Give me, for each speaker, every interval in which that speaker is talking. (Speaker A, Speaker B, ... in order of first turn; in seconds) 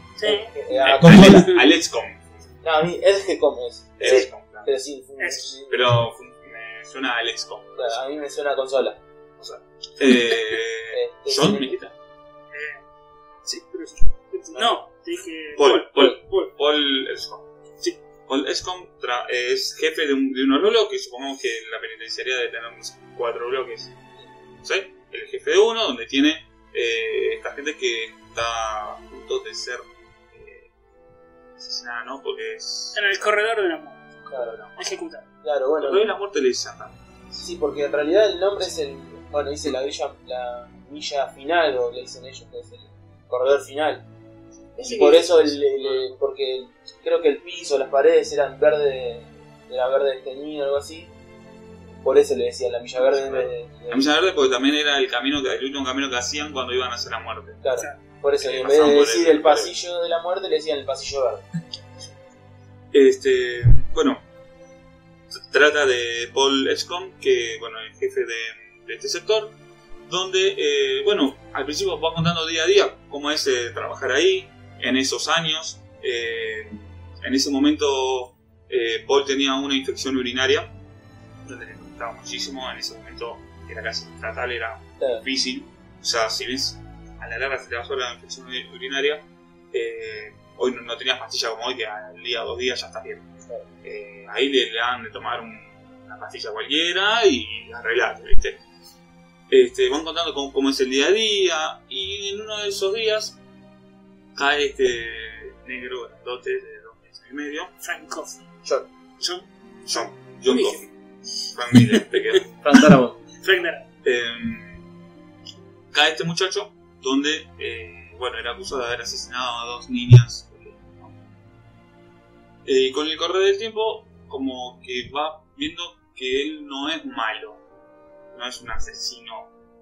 Speaker A: 0.2-0.6, 1.2-1.6, 5.2-5.5, 12.5-12.8, 13.4-16.5, 32.9-34.2, 34.8-35.3, 44.8-45.3, 107.8-108.4, 109.2-109.5, 110.5-110.9, 111.4-112.9, 113.4-113.9
Speaker B: 0.2-1.5, 2.6-6.0, 7.8-9.0, 10.9-11.8, 14.5-14.8, 34.3-34.6, 35.4-36.1, 37.3-44.1, 44.8-51.1, 51.9-54.1, 57.6-61.5, 85.0-85.2, 112.6-113.2
Speaker C: 0.8-2.4, 4.0-4.7, 5.7-8.0, 9.4-11.9, 15.6-17.5, 18.3-23.9, 24.6-30.7, 31.6-33.0, 34.2-34.9, 35.8-37.0, 45.4-46.0, 53.0-57.6, 58.4-59.7, 62.9-64.2, 65.3-69.5, 70.1-80.7, 81.5-93.3, 93.8-98.6, 99.5-103.4, 104.3-107.7, 109.9-110.9, 111.5-112.5, 114.0-114.9, 115.9-121.2, 122.7-127.6, 128.3-129.5